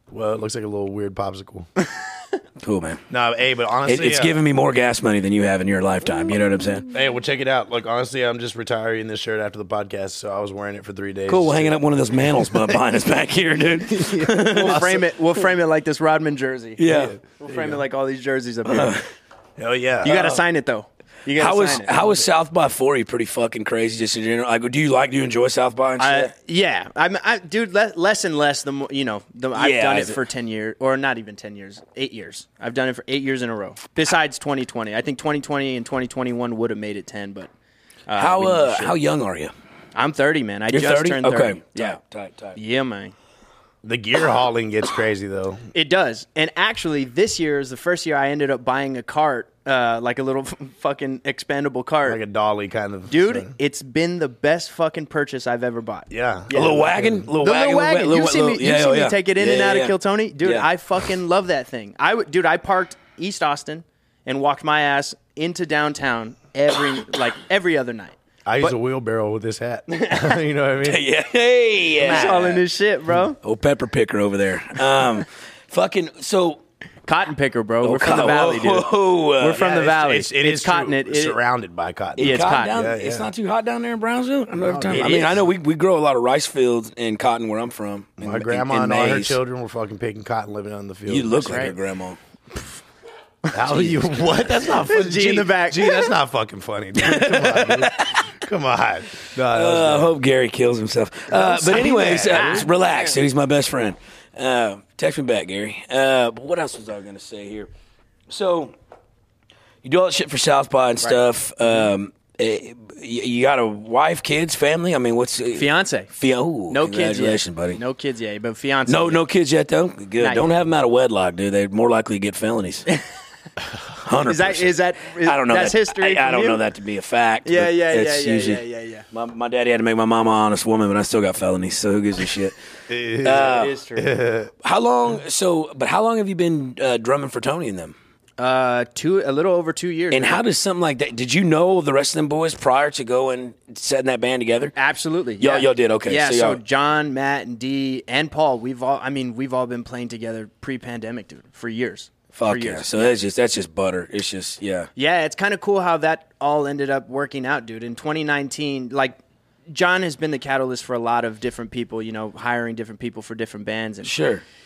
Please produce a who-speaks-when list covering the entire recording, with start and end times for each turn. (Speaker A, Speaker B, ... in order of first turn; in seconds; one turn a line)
Speaker A: 0.1-1.7
Speaker B: 2.6-3.0
Speaker A: 3.1-4.4
Speaker B: 3.9-6.9
Speaker A: 6.9-11.8
Speaker B: 11.3-14.9
Speaker A: 12.3-12.8
Speaker A: 13.9-15.0
Speaker C: 14.2-19.0
Speaker B: 16.8-17.2
Speaker A: 16.9-17.8
Speaker B: 18.7-19.0
Speaker A: 19.6-20.4
Speaker C: 20.0-22.3
Speaker B: 21.4-26.3
Speaker C: 26.0-37.5
Speaker B: 29.6-30.2
Speaker C: 38.1-39.0
Speaker B: 38.2-39.5
Speaker C: 40.0-42.0
Speaker B: 40.7-42.6
Speaker C: 42.5-43.1
Speaker A: 43.8-45.6
Speaker C: 45.7-52.2
Speaker A: 52.1-53.5
Speaker C: 53.1-56.9
Speaker A: 56.1-57.3
Speaker B: 56.5-60.7
Speaker C: 57.4-68.8
Speaker A: 68.5-71.0
Speaker C: 69.9-70.4
Speaker B: 70.8-72.6
Speaker A: 72.0-72.6
Speaker C: 72.0-73.4
Speaker B: 73.4-76.6
Speaker C: 77.1-81.4
Speaker B: 77.8-79.6
Speaker A: 79.6-83.3
Speaker B: 82.2-89.4
Speaker C: 82.2-82.8
Speaker A: 84.6-85.4
Speaker C: 84.9-85.4
Speaker A: 88.2-91.7
Speaker B: 91.1-92.2
Speaker C: 91.4-91.7
Speaker A: 93.5-100.1
Speaker B: 93.7-94.0
Speaker C: 94.7-96.1
Speaker B: 97.0-98.3
Speaker B: 99.5-107.7
Speaker A: 101.3-102.7
Speaker C: 101.7-103.1
Speaker B: 108.3-108.7
Speaker B: 109.8-117.8
Speaker C: 115.5-116.1
Speaker C: 116.7-119.2
Speaker B: 118.9-122.9
Speaker C: 120.2-120.5
Speaker B: 124.0-132.6
Speaker C: 124.2-126.6
Speaker C: 127.5-129.1
Speaker A: 132.9-134.5
Speaker B: 133.2-133.7
Speaker C: 133.3-134.1
Speaker B: 134.6-137.9
Speaker C: 138.4-140.4
Speaker B: 140.1-144.7
Speaker C: 144.8-153.1
Speaker B: 145.4-146.6
Speaker B: 152.3-154.9
Speaker C: 155.0-159.2
Speaker C: 159.7-164.1
Speaker B: 164.0-164.4